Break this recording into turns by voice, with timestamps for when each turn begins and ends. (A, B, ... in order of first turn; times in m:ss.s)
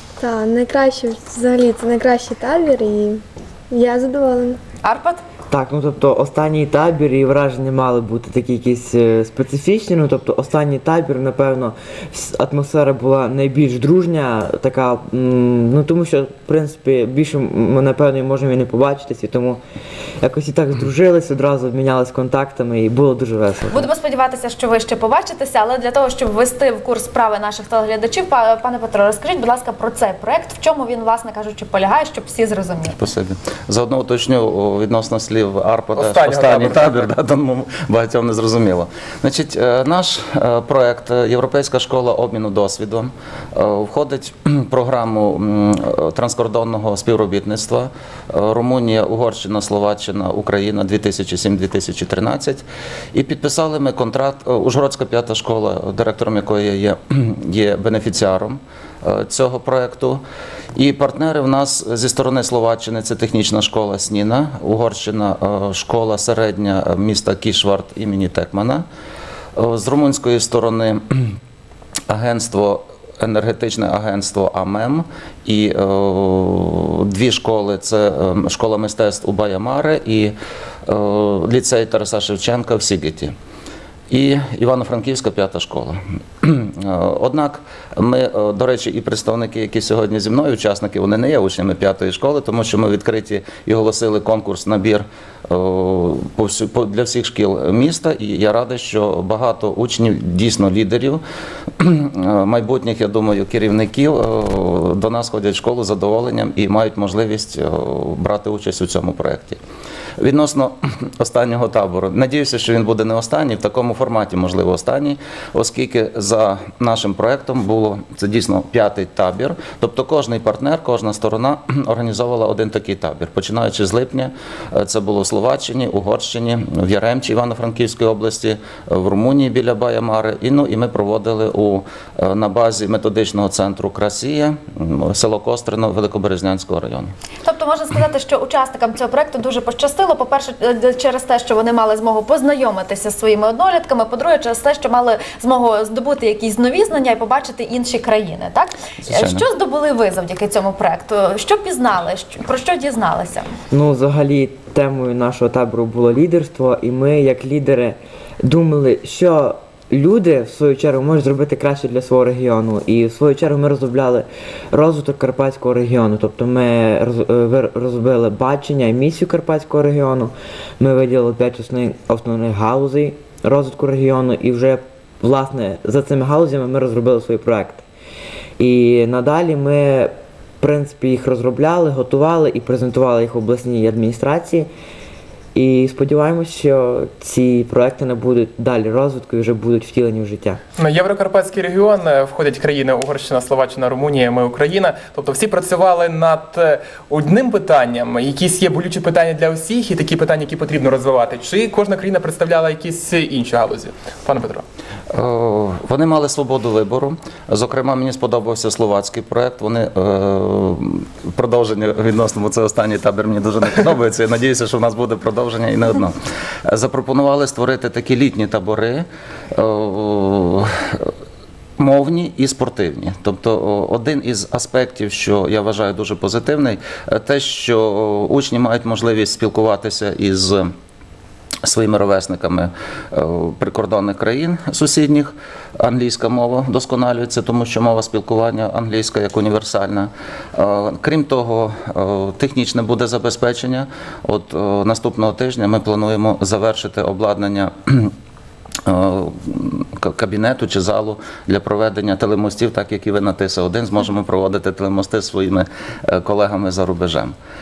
0:00.2-0:04.6 A
0:04.8-0:05.2 B
0:05.5-0:19.6 C
0:20.2-0:23.9 C
0:23.7-0:33.0 B
0:33.0-1:00.2 D
0:36.0-0:37.0 E
1:00.8-1:08.8 D
1:09.6-1:11.4 D
1:12.1-1:20.3 D
1:20.9-1:23.3 D
1:24.1-1:41.2 D
1:41.8-1:49.6 D
1:50.2-2:17.1 D
2:17.4-2:33.5 B
2:29.0-2:29.4 D
2:33.7-2:57.8 C
2:58.6-3:04.7 C
3:05.5-3:10.6 C
3:10.8-3:24.6 E
3:25.1-3:41.1 D
3:41.8-3:50.7 D
3:51.6-4:08.1 D
4:08.8-4:17.4 D